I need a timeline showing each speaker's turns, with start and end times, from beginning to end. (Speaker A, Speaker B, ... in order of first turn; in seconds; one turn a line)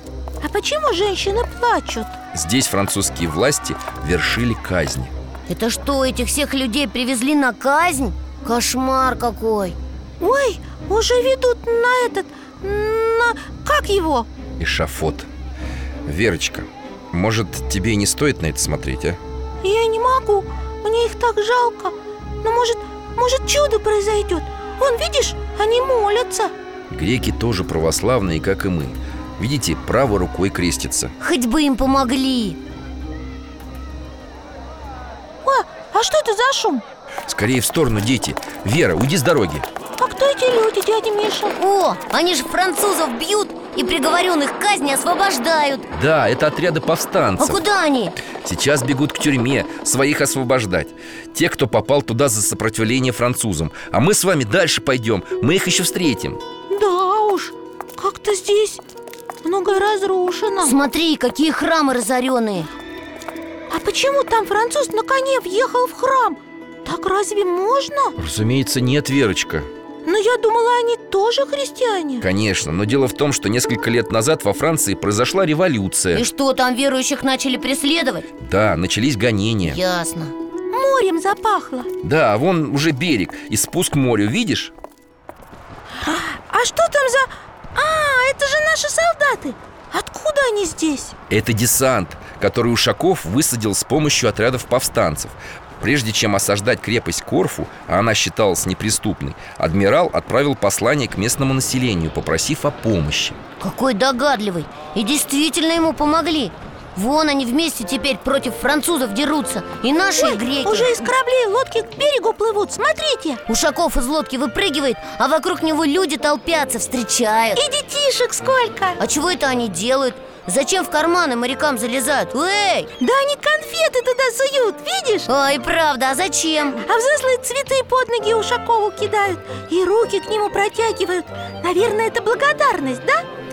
Speaker A: 0.4-2.2
Speaker B: 2.3-5.1
Speaker C: 5.5-9.8
Speaker A: 10.2-14.3
Speaker B: 14.6-15.3
Speaker B: 16.1-19.2
Speaker A: 19.6-26.5
Speaker B: 26.9-31.1
Speaker C: 31.2-32.6
Speaker A: 35.4-36.8
Speaker B: 37.3-39.6
Speaker A: 40.0-41.5
Speaker C: 41.6-45.9
Speaker B: 45.9-47.6
Speaker C: 47.4-48.2
Speaker B: 48.2-56.4
Speaker A: 56.7-58.8
Speaker A: 59.4-60.7
Speaker C: 60.6-62.7
Speaker A: 63.7-68.2
Speaker B: 68.2-69.7
Speaker A: 70.0-72.3
Speaker B: 72.2-76.2
Speaker C: 76.1-78.2
Speaker B: 78.4-79.8
Speaker C: 79.6-80.3
Speaker A: 80.7-81.9
Speaker B: 82.0-84.7
Speaker A: 86.0-91.1
Speaker B: 91.3-103.4
Speaker C: 103.6-111.0
Speaker A: 110.2-113.4
Speaker C: 113.5-117.6
Speaker A: 117.5-119.0
Speaker C: 119.0-122.9
Speaker A: 123.0-125.3
Speaker C: 125.3-126.8
Speaker A: 126.8-133.2